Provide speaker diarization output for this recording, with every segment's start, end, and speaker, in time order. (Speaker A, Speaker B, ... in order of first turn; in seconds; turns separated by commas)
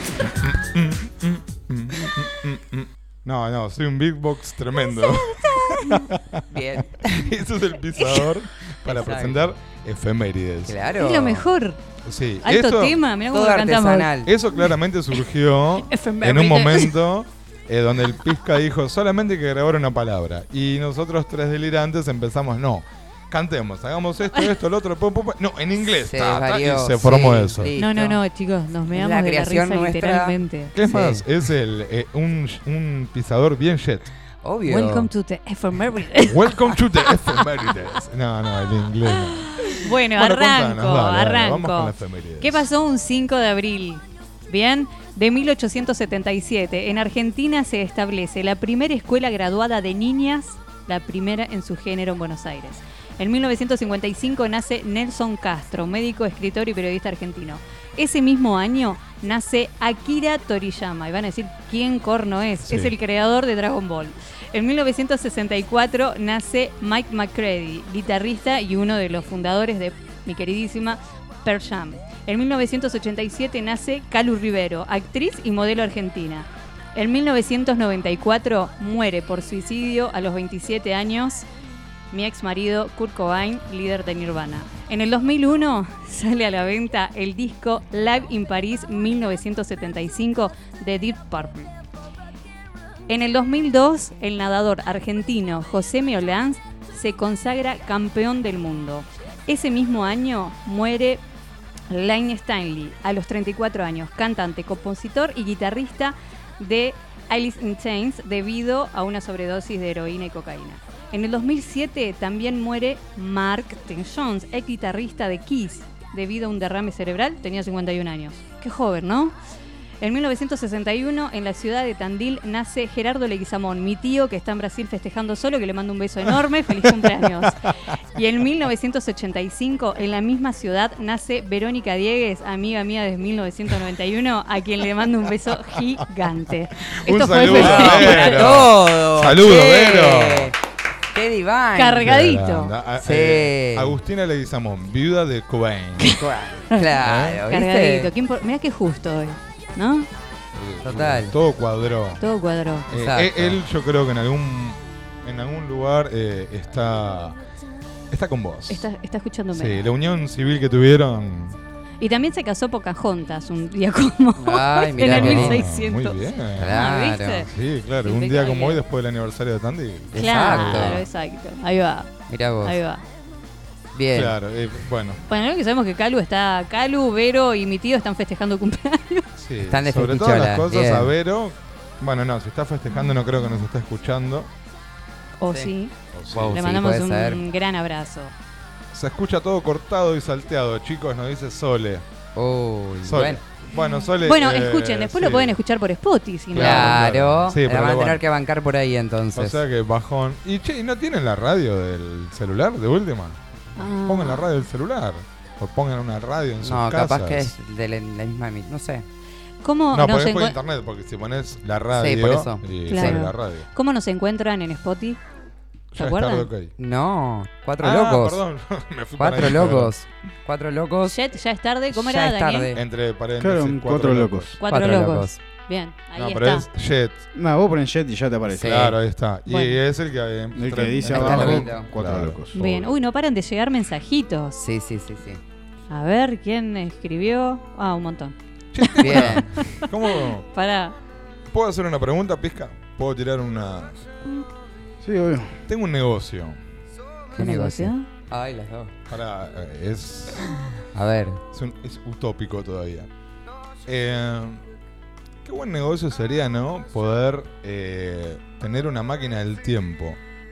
Speaker A: 0.4-6.4, Speaker B: 5.4-5.9, Speaker C: 6.5-7.3, Speaker A: 7.0-10.8, Speaker C: 8.8-9.5, Speaker C: 10.7-11.5, Speaker B: 11.0-11.8, Speaker A: 12.0-13.0, Speaker B: 12.4-14.1, Speaker C: 13.3-14.3, Speaker A: 14.2-27.7, Speaker B: 15.8-16.9, Speaker C: 26.0-28.2, Speaker B: 27.8-30.7, Speaker C: 28.9-30.3, Speaker A: 30.7-34.1, Speaker C: 30.9-31.2, Speaker C: 34.4-35.1, Speaker B: 34.6-37.1, Speaker A: 36.2-42.7, Speaker B: 39.6-81.5, Speaker A: 62.6-62.9, Speaker B: 82.1-91.7, Speaker B: 93.1-101.2, Speaker B: 101.9-119.3, Speaker B: 120.0-138.7, Speaker A: 126.8-127.5, Speaker A: 136.9-140.5, Speaker C: 137.4-140.6, Speaker C: 141.1-142.1, Speaker B: 141.8-142.7, Speaker A: 142.0-146.2, Speaker C: 143.0-143.9, Speaker C: 146.2-148.1, Speaker A: 147.0-147.4, Speaker B: 147.5-150.1, Speaker A: 150.5-152.2, Speaker C: 150.8-151.3, Speaker B: 152.2-152.9, Speaker A: 152.9-157.4, Speaker C: 152.9-153.6, Speaker A: 158.1-158.9, Speaker B: 158.7-159.8, Speaker A: 159.5-161.6, Speaker B: 162.0-167.5, Speaker C: 164.4-165.6, Speaker A: 165.0-166.8, Speaker C: 166.6-167.5, Speaker A: 167.4-171.0, Speaker B: 168.0-168.8, Speaker C: 170.1-171.0, Speaker B: 170.1-173.0, Speaker C: 172.3-172.8, Speaker C: 173.9-174.3, Speaker A: 174.1-175.2, Speaker B: 175.3-179.2, Speaker A: 179.3-184.5, Speaker C: 179.7-181.1, Speaker B: 185.4-185.9, Speaker A: 186.1-186.7, Speaker C: 186.3-187.4, Speaker B: 186.5-188.3, Speaker A: 188.9-192.1, Speaker C: 192.3-193.4, Speaker A: 193.0-195.6, Speaker B: 193.7-197.0, Speaker A: 196.5-198.2, Speaker C: 196.6-199.6, Speaker A: 199.3-207.5, Speaker B: 203.8-204.4, Speaker C: 206.6-209.1, Speaker B: 209.6-210.6, Speaker A: 209.9-213.7, Speaker C: 211.9-213.2, Speaker B: 212.9-215.2, Speaker A: 215.9-216.7, Speaker B: 215.9-216.5, Speaker C: 216.8-218.4, Speaker A: 217.8-219.9, Speaker C: 219.2-221.2, Speaker B: 221.1-222.7, Speaker C: 221.9-222.8, Speaker A: 222.7-224.6, Speaker D: 223.4-224.6, Speaker B: 224.6-226.7, Speaker C: 224.7-225.4, Speaker A: 226.2-227.2, Speaker D: 227.3-228.8, Speaker C: 228.5-228.9, Speaker A: 228.6-232.9, Speaker B: 229.5-229.8, Speaker D: 230.5-232.5, Speaker C: 231.0-231.9, Speaker B: 232.5-234.6, Speaker C: 234.6-235.4, Speaker B: 235.9-240.9, Speaker A: 238.7-240.4, Speaker C: 239.0-239.6, Speaker A: 241.5-244.0, Speaker D: 245.0-245.6, Speaker A: 245.7-246.6, Speaker C: 247.3-248.9, Speaker B: 247.4-248.1, Speaker A: 249.1-250.5, Speaker C: 250.9-251.4, Speaker A: 251.5-253.1, Speaker A: 253.8-254.6, Speaker A: 255.4-260.2